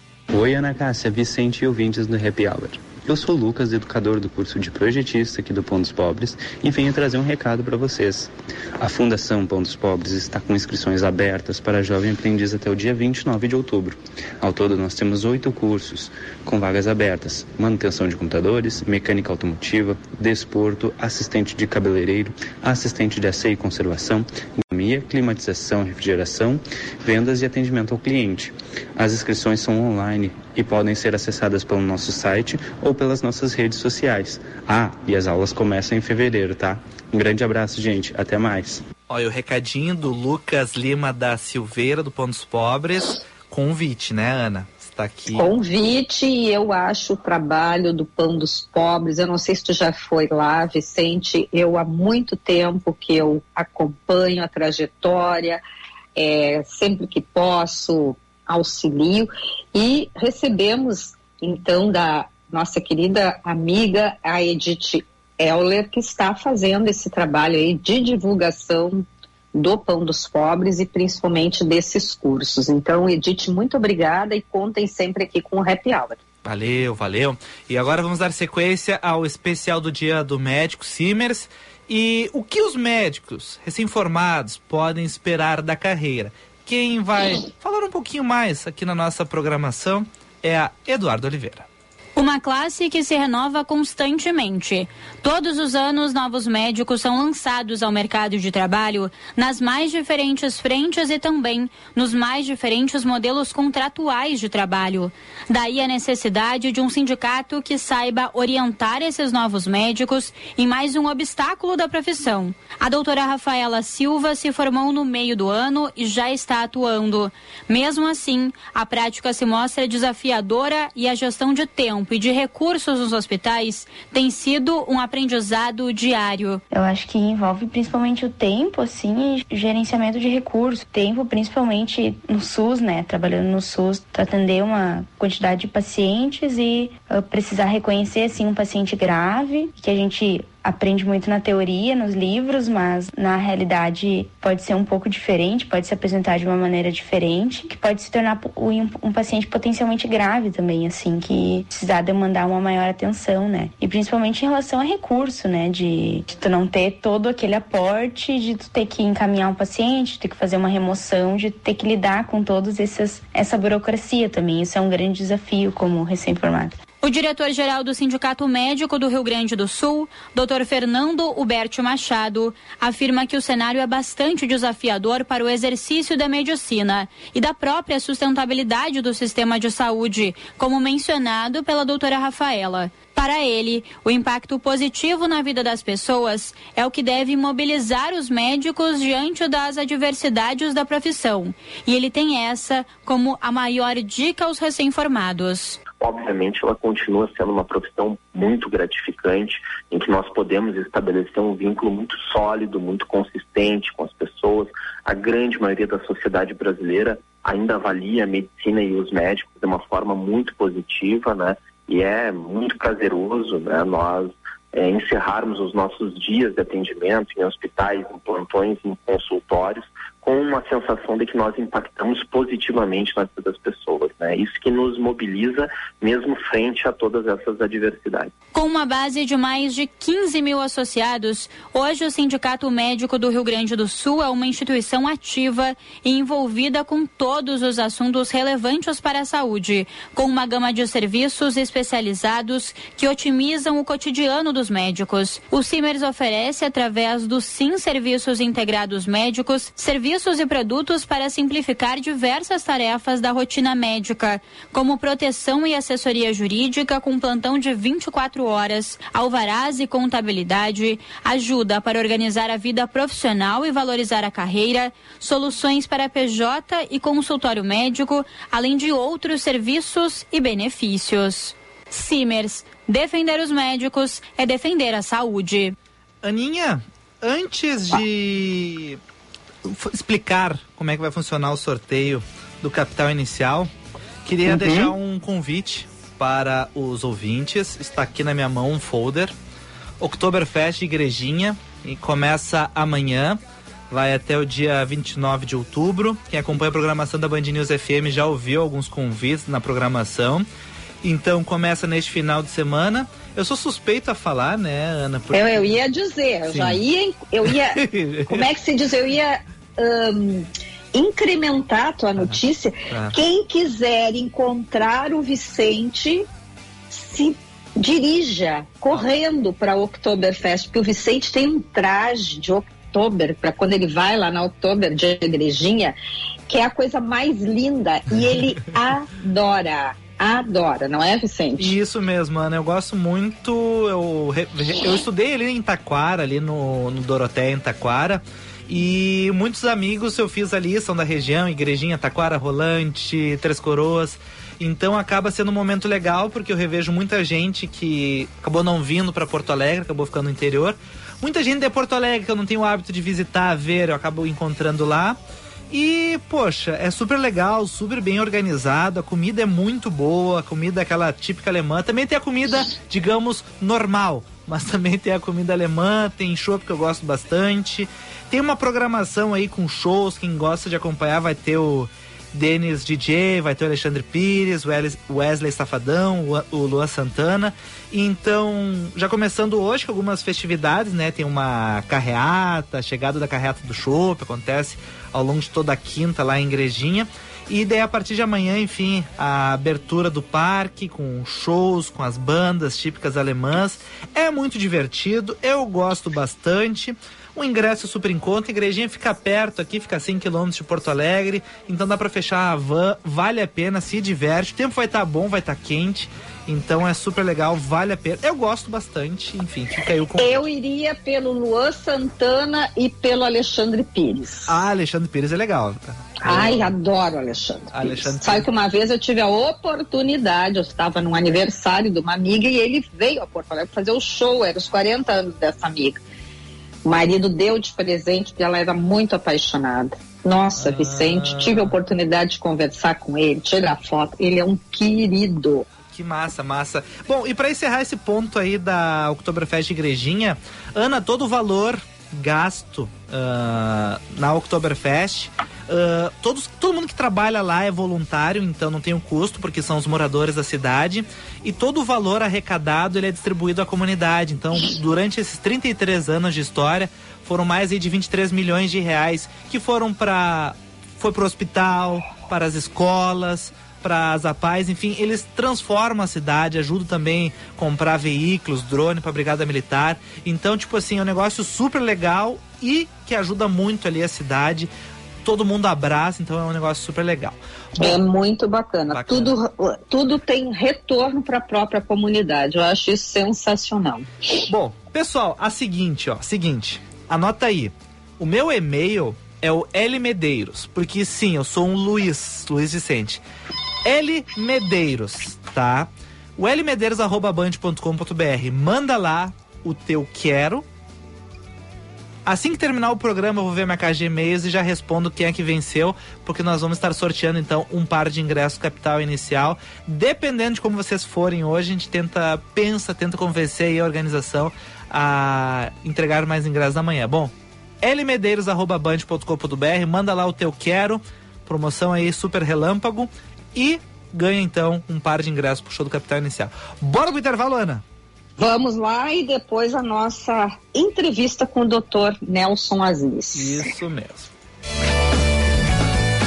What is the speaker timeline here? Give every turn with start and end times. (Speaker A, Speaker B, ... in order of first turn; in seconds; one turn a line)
Speaker A: 0.3-38.8
Speaker B: 39.1-45.5
Speaker C: 45.3-55.6
Speaker C: 56.1-76.2
Speaker B: 76.4-91.7
Speaker D: 92.2-126.6
Speaker E: 126.7-166.8
Speaker D: 167.0-195.8
Speaker F: 196.0-228.3
Speaker D: 228.5-275.7
Speaker B: 276.2-279.0
Speaker B: 279.6-283.7
Speaker B: 284.2-289.3
Speaker C: 284.5-284.9
Speaker B: 290.0-300.5
Speaker B: 301.0-305.8
Speaker C: 305.3-316.3
Speaker B: 306.5-306.8
Speaker B: 307.4-308.5
Speaker B: 312.9-313.1
Speaker C: 316.9-325.9
Speaker C: 326.5-331.7
Speaker B: 331.6-355.2
Speaker B: 355.7-410.4
Speaker C: 410.2-414.6
Speaker B: 414.5-416.7
Speaker C: 416.2-426.0
Speaker B: 417.7-418.5
Speaker C: 426.8-435.7
Speaker B: 430.6-431.8
Speaker B: 435.9-474.7
Speaker B: 475.2-478.0
Speaker C: 477.8-484.1
Speaker B: 478.9-479.4
Speaker B: 484.5-493.2
Speaker B: 493.8-500.6
Speaker B: 502.2-527.8
Speaker C: 528.4-533.6
Speaker B: 533.3-534.3